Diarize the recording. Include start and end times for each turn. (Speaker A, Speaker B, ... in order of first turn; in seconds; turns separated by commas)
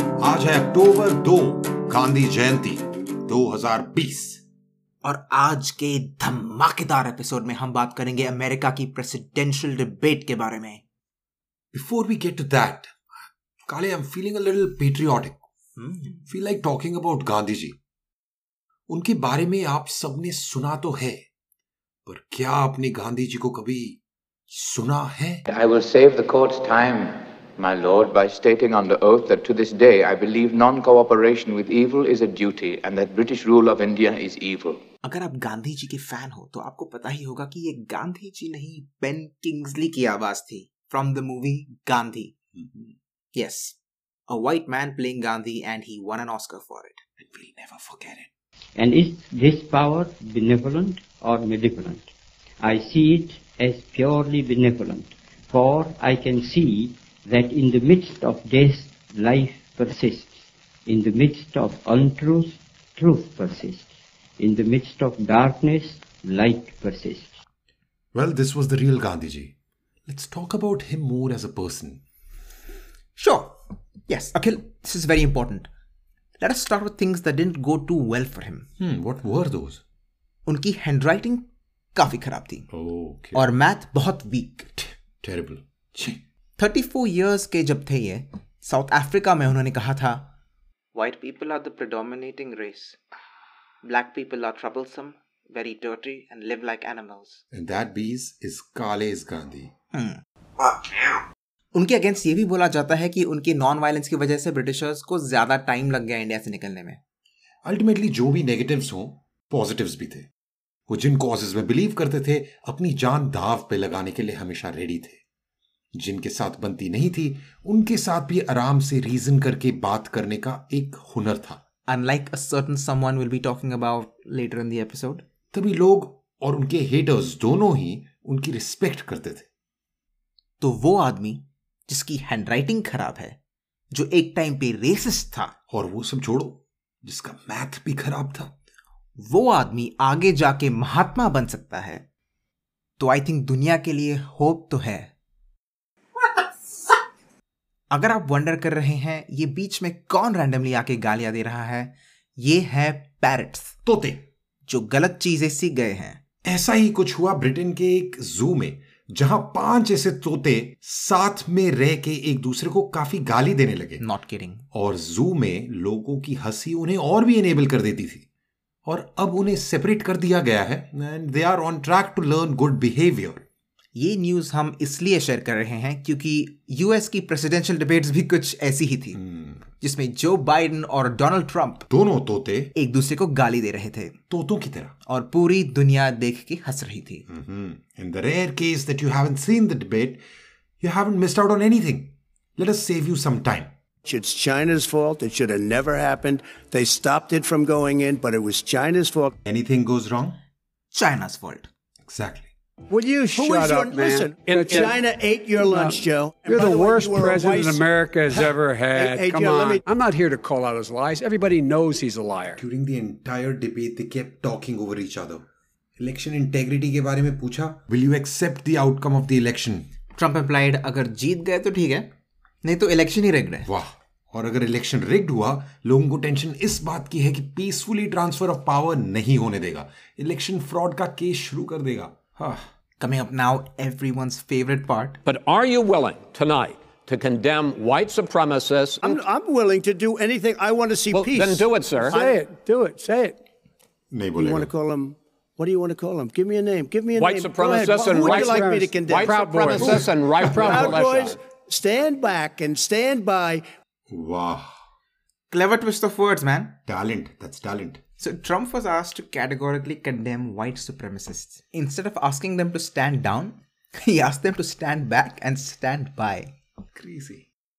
Speaker A: 0.2-4.4, Speaker B: 5.0-10.8, Speaker A: 11.7-12.9, Speaker A: 13.7-15.4, Speaker B: 15.8-16.3, Speaker A: 16.3-17.8, Speaker A: 18.9-21.2, Speaker A: 22.1-24.0, Speaker A: 24.5-25.4, Speaker C: 25.5-34.8, Speaker B: 35.0-42.4, Speaker A: 42.6-42.9, Speaker B: 43.3-43.8, Speaker B: 44.3-47.0, Speaker A: 47.2-48.3, Speaker D: 48.8-52.1, Speaker D: 52.6-60.3, Speaker D: 60.9-63.9, Speaker D: 64.4-67.3, Speaker A: 68.2-69.5, Speaker A: 70.1-72.0, Speaker B: 73.2-75.7, Speaker B: 76.4-78.7, Speaker A: 78.8-79.8, Speaker B: 80.5-82.7, Speaker A: 82.7-83.5, Speaker B: 83.3-84.7, Speaker A: 84.8-86.2, Speaker B: 86.6-90.3, Speaker B: 90.9-93.0, Speaker B: 93.8-97.4, Speaker A: 97.5-99.7, Speaker B: 99.9-101.2, Speaker B: 101.7-107.0, Speaker A: 107.7-110.3, Speaker A: 110.9-115.2, Speaker A: 116.0-121.6, Speaker B: 121.9-125.2, Speaker A: 125.5-129.5, Speaker B: 130.6-133.4, Speaker B: 133.9-135.5, Speaker A: 135.7-138.5, Speaker B: 139.2-142.1, Speaker B: 143.0-145.1, Speaker B: 147.9-153.8, Speaker A: 153.8-154.2, Speaker B: 154.7-156.2, Speaker A: 156.4-164.0, Speaker B: 164.0-164.7, Speaker A: 164.7-168.3, Speaker A: 168.9-173.4, Speaker B: 173.9-179.2, Speaker A: 179.1-179.7, Speaker B: 179.8-181.9, Speaker A: 181.9-182.7, Speaker B: 182.8-184.2, Speaker A: 184.3-184.9, Speaker B: 185.1-187.2, Speaker A: 187.3-190.2, Speaker A: 190.8-193.7, Speaker E: 194.1-199.3, Speaker A: 199.4-200.4, Speaker B: 200.9-201.7, Speaker A: 202.1-202.5, Speaker E: 202.9-209.8, Speaker F: 203.3-205.0, Speaker G: 204.5-204.8, Speaker F: 205.6-212.6, Speaker A: 212.6-215.5, Speaker A: 216.0-219.9, Speaker B: 220.2-222.1, Speaker B: 222.6-223.7, Speaker A: 223.7-232.6, Speaker B: 233.0-235.2, Speaker G: 235.2-239.2, Speaker E: 239.0-243.3, Speaker G: 241.1-242.2, Speaker F: 242.1-243.3, Speaker A: 244.1-244.7, Speaker E: 244.4-250.1, Speaker G: 247.2-251.4, Speaker F: 247.6-247.9, Speaker F: 248.5-251.0, Speaker E: 250.7-253.6, Speaker A: 254.1-254.7, Speaker B: 255.5-256.8, Speaker A: 256.9-258.0, Speaker B: 258.2-266.5, Speaker A: 267.0-267.5